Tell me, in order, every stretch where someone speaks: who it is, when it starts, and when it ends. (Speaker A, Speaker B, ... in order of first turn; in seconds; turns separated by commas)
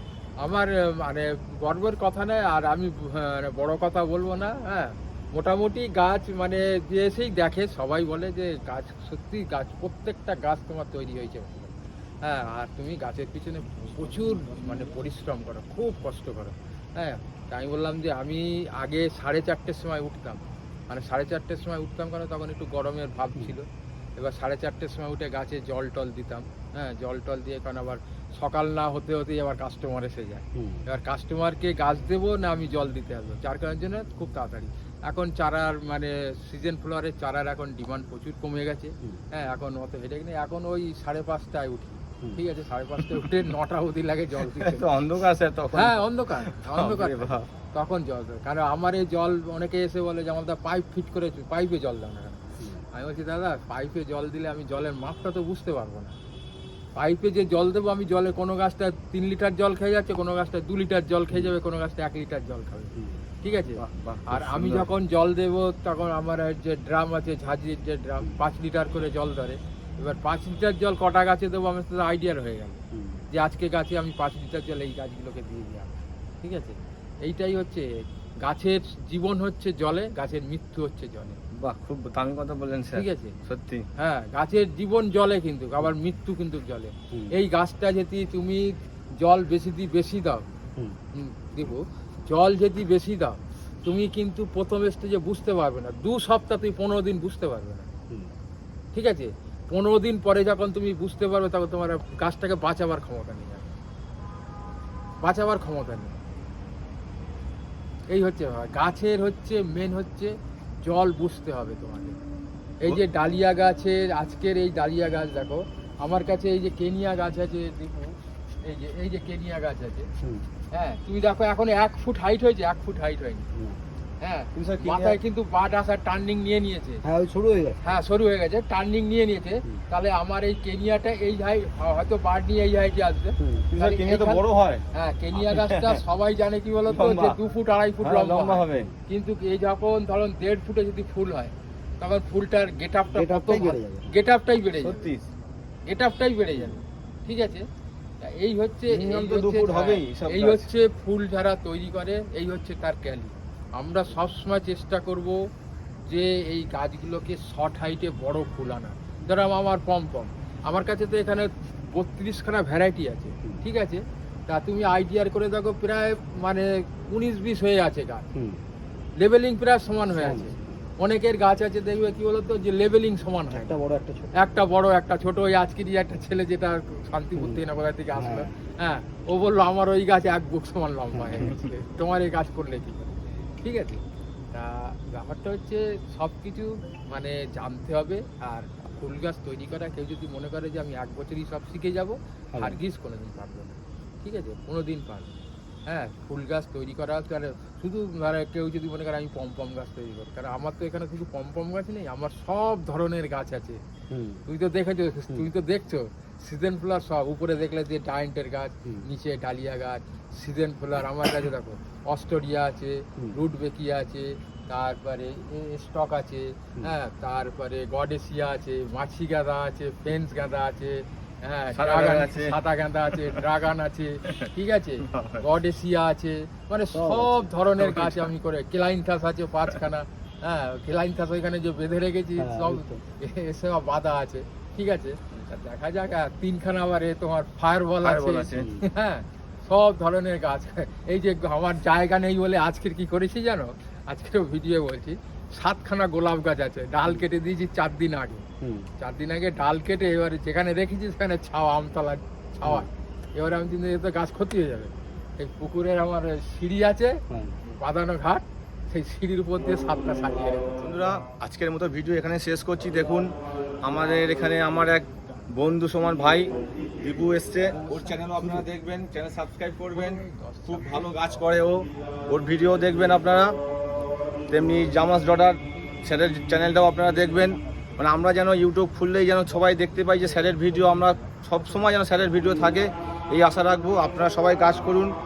Speaker A: 0.4-44.9, Speaker B: 43.0-43.5, Speaker B: 44.4-47.5, Speaker A: 45.7-56.1, Speaker A: 57.0-72.8, Speaker C: 63.0-63.2, Speaker B: 63.8-64.9, Speaker C: 72.9-73.3, Speaker A: 73.3-77.9, Speaker A: 78.4-81.4, Speaker B: 81.6-83.9, Speaker A: 82.9-83.4, Speaker A: 84.0-90.5, Speaker A: 91.2-97.9, Speaker A: 99.0-103.7, Speaker A: 105.2-106.2, Speaker A: 108.1-110.3, Speaker A: 110.8-112.2, Speaker A: 112.8-120.1, Speaker A: 120.7-123.5, Speaker C: 123.5-123.8, Speaker A: 124.2-127.0, Speaker B: 124.5-125.2, Speaker C: 127.0-127.8, Speaker A: 127.8-145.1, Speaker C: 133.4-133.7, Speaker B: 133.7-134.8, Speaker B: 135.3-136.0, Speaker B: 136.9-137.4, Speaker B: 138.0-138.9, Speaker C: 143.1-144.2, Speaker B: 144.8-145.3, Speaker A: 145.9-147.7, Speaker A: 148.2-155.4, Speaker B: 148.9-150.7, Speaker A: 156.1-168.2, Speaker C: 168.3-168.6, Speaker A: 169.2-173.8, Speaker C: 170.1-170.8, Speaker C: 173.5-174.3, Speaker A: 174.3-195.3, Speaker C: 177.4-177.6, Speaker C: 178.2-178.5, Speaker C: 181.1-181.5, Speaker C: 192.5-192.8, Speaker A: 195.9-203.8, Speaker C: 204.1-204.4, Speaker A: 204.5-248.4, Speaker B: 221.7-222.6, Speaker B: 223.1-223.4, Speaker B: 225.1-225.4, Speaker C: 226.9-227.5, Speaker B: 227.8-228.3, Speaker C: 232.4-233.0, Speaker B: 238.0-238.7, Speaker C: 238.6-238.9, Speaker C: 248.6-248.9, Speaker A: 249.0-260.9, Speaker C: 252.6-252.9, Speaker C: 257.3-257.6, Speaker B: 260.8-263.3, Speaker B: 263.8-266.5, Speaker B: 267.0-273.5, Speaker A: 267.7-268.6, Speaker A: 269.9-271.1, Speaker B: 274.5-285.1, Speaker A: 276.0-278.6, Speaker A: 279.3-282.5